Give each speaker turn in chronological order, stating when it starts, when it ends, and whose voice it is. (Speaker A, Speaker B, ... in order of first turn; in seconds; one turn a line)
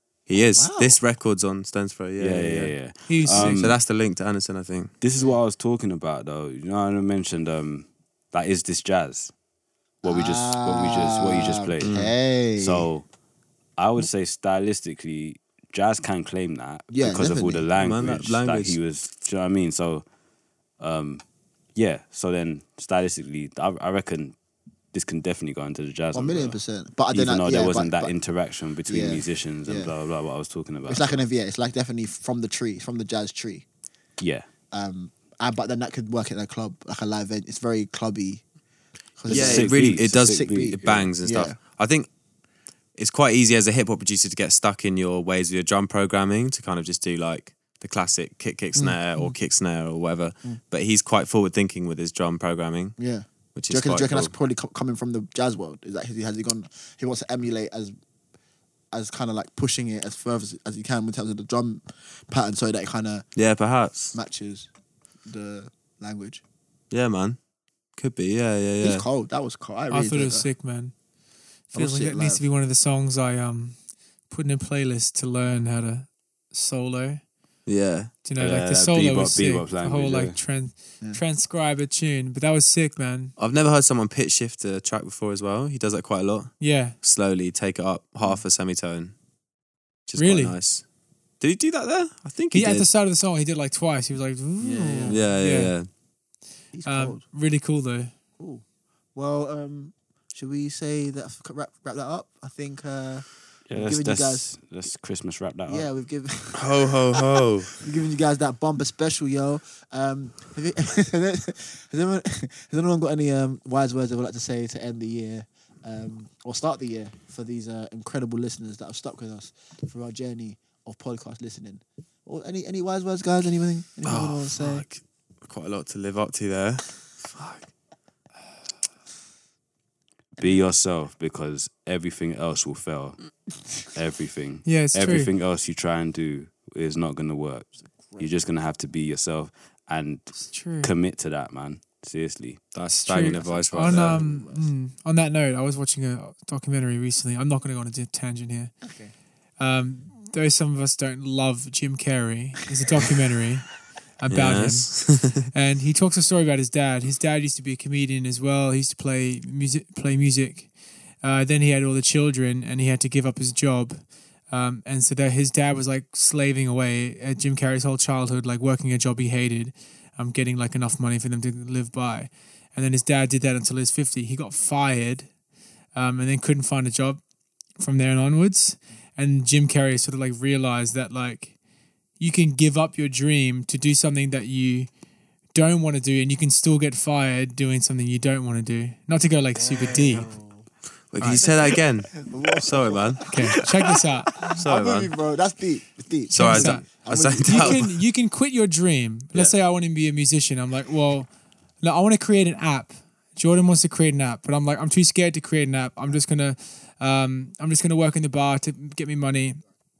Speaker A: 0.3-2.7
Speaker B: 0.3-1.0
Speaker C: 2.2-3.7
Speaker D: 3.1-3.5
Speaker A: 3.3-4.9
Speaker C: 5.0-9.3
Speaker C: 10.0-12.0
Speaker B: 10.0-12.9
Speaker A: 11.8-12.1
Speaker C: 12.6-13.1
Speaker C: 13.8-20.0
Speaker B: 16.9-17.6
Speaker A: 17.8-18.8
Speaker C: 20.8-21.2
Speaker C: 21.8-24.3
Speaker C: 24.9-26.6
Speaker B: 26.1-28.1
Speaker C: 27.1-31.2
Speaker B: 28.9-29.9
Speaker B: 30.9-33.6
Speaker C: 34.2-34.4
Speaker B: 34.7-38.4
Speaker B: 39.2-41.6
Speaker C: 39.2-41.1
Speaker A: 39.3-42.1
Speaker A: 43.0-53.0
Speaker B: 53.0-57.9
Speaker A: 53.5-54.3
Speaker B: 58.9-63.3
Speaker A: 63.4-64.2
Speaker B: 64.1-64.7
Speaker B: 65.2-66.4
Speaker A: 66.9-67.4
Speaker A: 68.0-69.0
Speaker B: 68.8-70.5
Speaker D: 69.9-70.9
Speaker D: 71.7-73.8
Speaker B: 71.7-72.4
Speaker D: 74.3-77.2
Speaker A: 77.7-78.1
Speaker D: 78.2-83.3
Speaker C: 78.4-80.4
Speaker A: 83.4-89.1
Speaker D: 86.6-87.0
Speaker A: 90.1-90.8
Speaker D: 90.2-90.6
Speaker A: 91.4-92.9
Speaker D: 92.5-95.7
Speaker B: 94.6-95.2
Speaker A: 95.1-95.9
Speaker B: 96.7-97.2
Speaker D: 96.8-98.1
Speaker B: 98.4-98.6
Speaker B: 99.1-104.5
Speaker C: 103.7-105.9
Speaker B: 105.7-107.2
Speaker A: 106.5-107.7
Speaker B: 107.8-124.8
Speaker A: 124.0-127.6
Speaker C: 130.4-133.2
Speaker C: 133.8-142.6
Speaker D: 134.7-135.3
Speaker B: 137.9-138.3
Speaker D: 140.5-140.9
Speaker A: 142.7-144.2
Speaker D: 142.9-148.7
Speaker B: 143.3-144.7
Speaker B: 148.8-149.1
Speaker D: 149.6-153.7
Speaker D: 154.2-160.7
Speaker A: 154.3-155.5
Speaker D: 161.2-175.3
Speaker D: 175.9-177.2
Speaker D: 177.8-181.5
Speaker D: 182.2-184.9
Speaker D: 185.5-190.3
Speaker B: 189.5-190.7
Speaker A: 191.1-193.4
Speaker B: 191.3-197.9
Speaker D: 193.3-194.5
Speaker A: 194.5-195.1
Speaker A: 196.3-197.9
Speaker D: 196.4-196.8
Speaker D: 197.4-201.3
Speaker D: 201.8-209.6